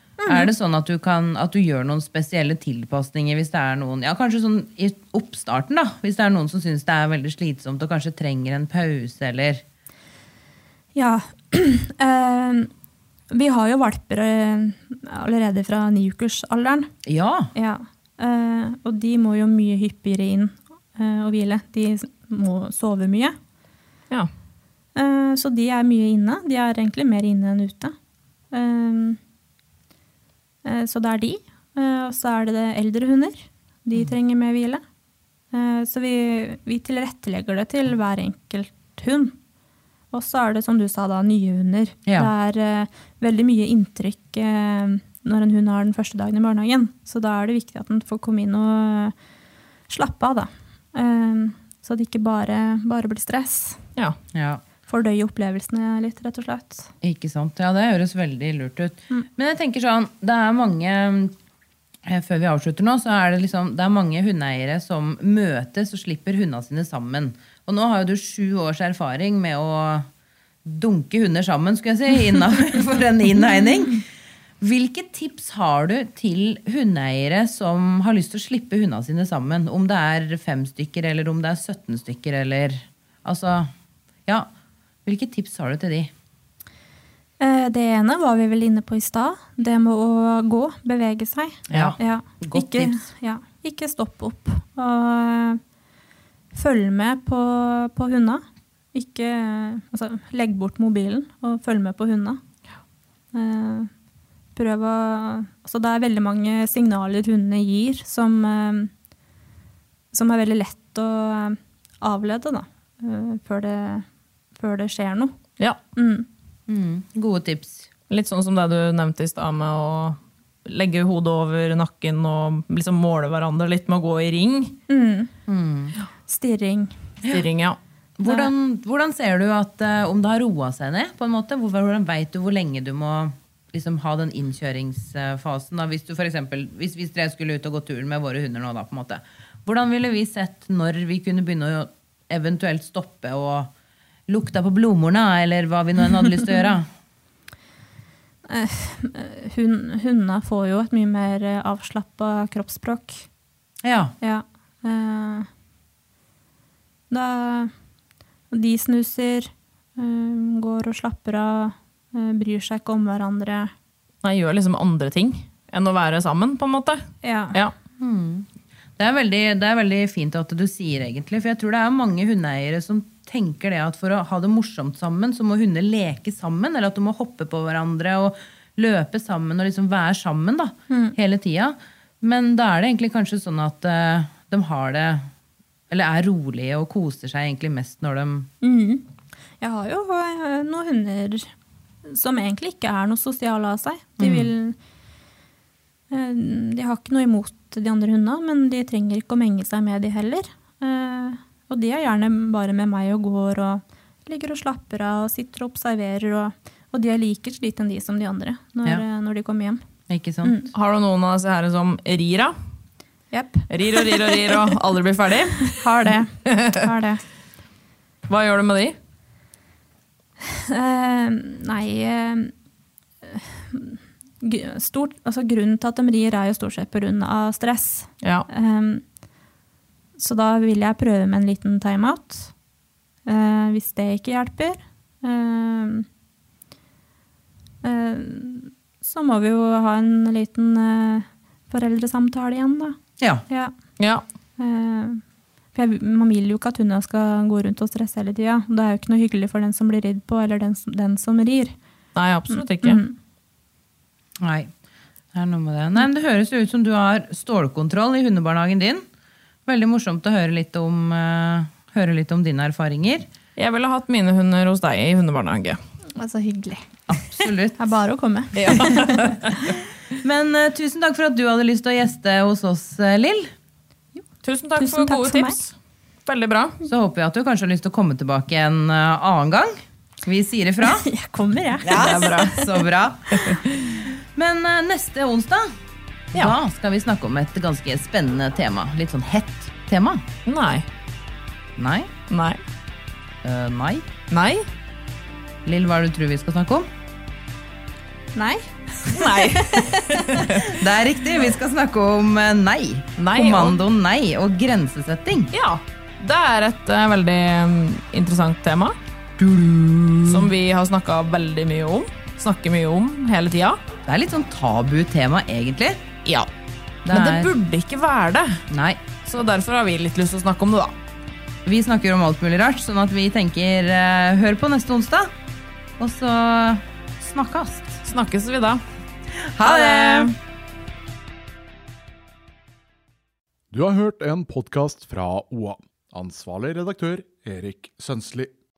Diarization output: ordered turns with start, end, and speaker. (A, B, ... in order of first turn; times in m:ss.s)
0:00.2-0:00.5 A
0:00.3-0:09.6 B
0:11.0-0:12.7 A
0:13.3-0:16.9 A
0:17.0-0:17.5 B
0:17.5-0:23.4 A
0:25.0-0:27.9 A
0:28.5-0:29.2 A
0:30.6-0:34.8 A
0:35.5-0:39.4 A
0:40.1-0:49.2 A
0:42.1-0:42.3 B
0:49.9-0:53.8 A
0:54.3-0:54.6 B
0:54.9-0:56.9 A
0:57.0-1:01.4 B
1:02.0-1:10.1 B
1:10.6-1:14.0 B
1:14.6-1:23.7 B
1:25.0-1:26.1 B
1:27.4-1:35.6 A
1:31.7-1:32.0 C
1:31.7-1:33.0 B
1:36.5-1:38.4 A
1:38.9-1:42.4 A
1:43.3-1:43.9 A
1:44.6-1:48.9 A
1:50.1-1:54.1 A
1:54.6-1:55.3 A
1:56.0-1:56.3 A
1:56.7-1:57.9 B
1:58.1-2:04.8 C
2:04.9-2:05.3 A
2:05.5-2:06.0 B
2:06.3-2:06.9 A
2:07.3-2:07.8 C
2:08.2-2:23.7 B
2:08.2-2:08.5 A
2:24.3-2:26.9 B
2:28.5-2:33.3 A
2:33.8-2:34.2 B
2:34.2-2:35.5 A
2:37.1-2:37.7 A
2:38.5-2:43.7 A
2:44.2-2:47.0 C
2:47.2-2:47.6 A
2:48.0-2:48.5 B
2:49.0-3:05.3 B
3:00.9-3:01.2 A
3:05.9-3:08.5 B
3:08.6-3:09.0 A
3:09.6-3:11.5 A
3:12.0-3:14.8 A
3:14.2-3:14.5 B
3:16.1-3:29.8 A
3:30.1-3:30.6 B
3:30.4-3:30.7 A
3:30.7-3:32.5 C
3:33.3-3:34.5 A
3:33.7-3:35.9 C
3:35.7-3:37.2 A
3:36.4-3:36.8 C
3:38.3-3:39.0 C
3:40.5-3:42.5 A
3:43.2-3:49.0 A
3:48.2-3:48.5 C
3:50.2-3:52.5 A
3:53.3-3:56.1 A
3:57.8-4:03.0 A
4:04.6-4:05.2 A
4:05.7-4:11.7 A
4:12.2-4:13.0 C
4:12.5-4:13.2 A
4:14.4-4:14.7 B
4:15.3-4:19.0 B
4:19.7-4:23.3 B
4:23.6-4:25.8 C
4:26.2-4:26.8 A
4:27.1-4:27.8 B
4:27.8-4:29.4 A
4:28.6-4:29.5 C
4:30.2-4:33.5 B
4:34.4-4:35.7 C
4:34.8-4:35.6 A
4:36.3-4:36.8 C
4:36.8-4:41.1 B
4:40.8-4:42.4 A
4:41.8-4:43.6 B
4:41.9-4:42.7 C
4:43.3-4:44.0 C
4:44.4-4:45.7 B
4:46.3-4:50.2 B
4:50.5-4:50.9 C
4:51.8-4:52.1 B
4:52.3-4:52.6 C
4:53.4-4:54.1 B
4:54.3-4:54.7 C
4:55.6-4:56.9 B
4:58.4-5:00.4 A
4:59.1-5:00.7 C
5:00.5-5:05.5 B
5:03.2-5:03.8 C
5:05.5-5:09.0 C
5:09.4-5:10.5 B
5:10.3-5:13.8 C
5:14.1-5:16.0 B
5:17.1-5:17.5 B
5:17.1-5:18.6 C
5:18.7-5:19.0 B
5:19.2-5:20.9 C
5:21.6-5:25.3 B
5:26.0-5:28.0 B
5:28.0-5:28.8 C
5:29.4-5:30.3 B
5:29.6-5:30.3 C
5:33.7-5:38.5 D